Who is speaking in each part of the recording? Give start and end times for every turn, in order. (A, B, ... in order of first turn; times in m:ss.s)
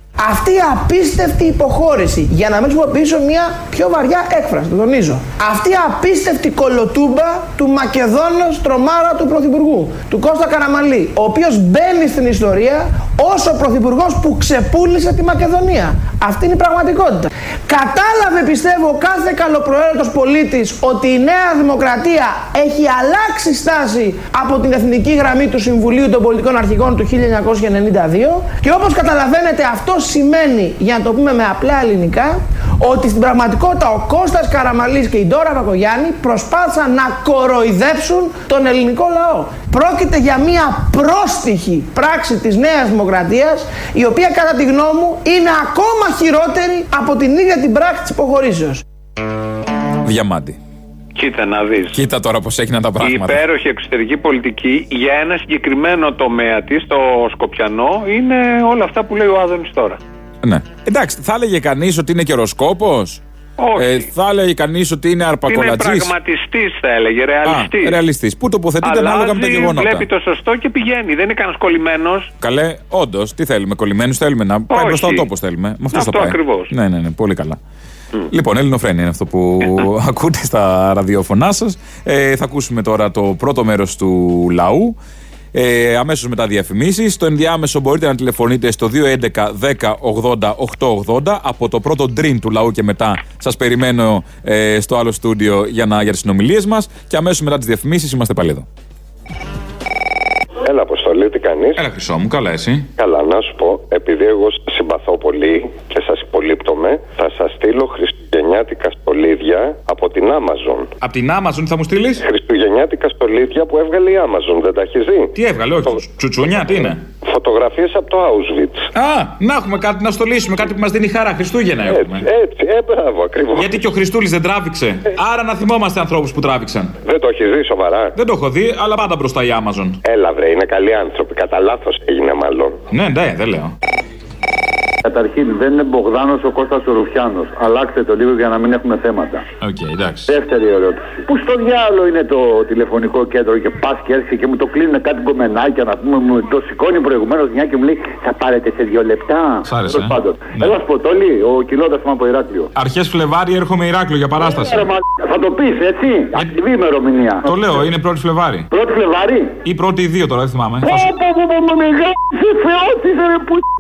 0:00.2-0:48.8 A
0:50.0-0:50.6 B
0:51.2-0:52.0 C
0:51.9-0:53.4 B
0:53.0-1:00.0 C
1:00.4-1:03.2 B
1:03.6-1:04.1 C
1:03.8-1:06.1 B
1:05.5-1:08.0 C
1:07.4-1:10.0 B
1:08.8-1:12.3 C
1:12.4-1:17.6 B
1:14.7-1:15.2 C
1:15.9-1:16.7 C
1:18.3-1:25.0 B
1:25.5-1:38.6 B
1:40.6-1:41.8 D
1:41.8-1:42.9 B
1:43.0-1:50.9 D
1:51.0-1:52.2 B
1:52.2-1:55.3 D
1:55.3-1:57.0 B
1:56.4-1:58.8 D
1:58.9-2:02.3 B
2:01.8-2:03.7 D
2:03.5-2:06.9 B
2:07.0-2:08.1 D
2:08.1-2:10.0 B
2:10.1-2:12.8 D
2:12.9-2:13.7 B
2:15.0-2:19.4 E
2:19.6-2:20.3 B
2:20.3-2:32.7 E
2:29.6-2:30.7 B
2:32.7-2:34.9 B
2:34.5-2:37.7 E
2:37.4-2:38.7 B
2:38.7-2:39.5 E
2:39.6-2:41.1 B
2:40.8-2:43.6 E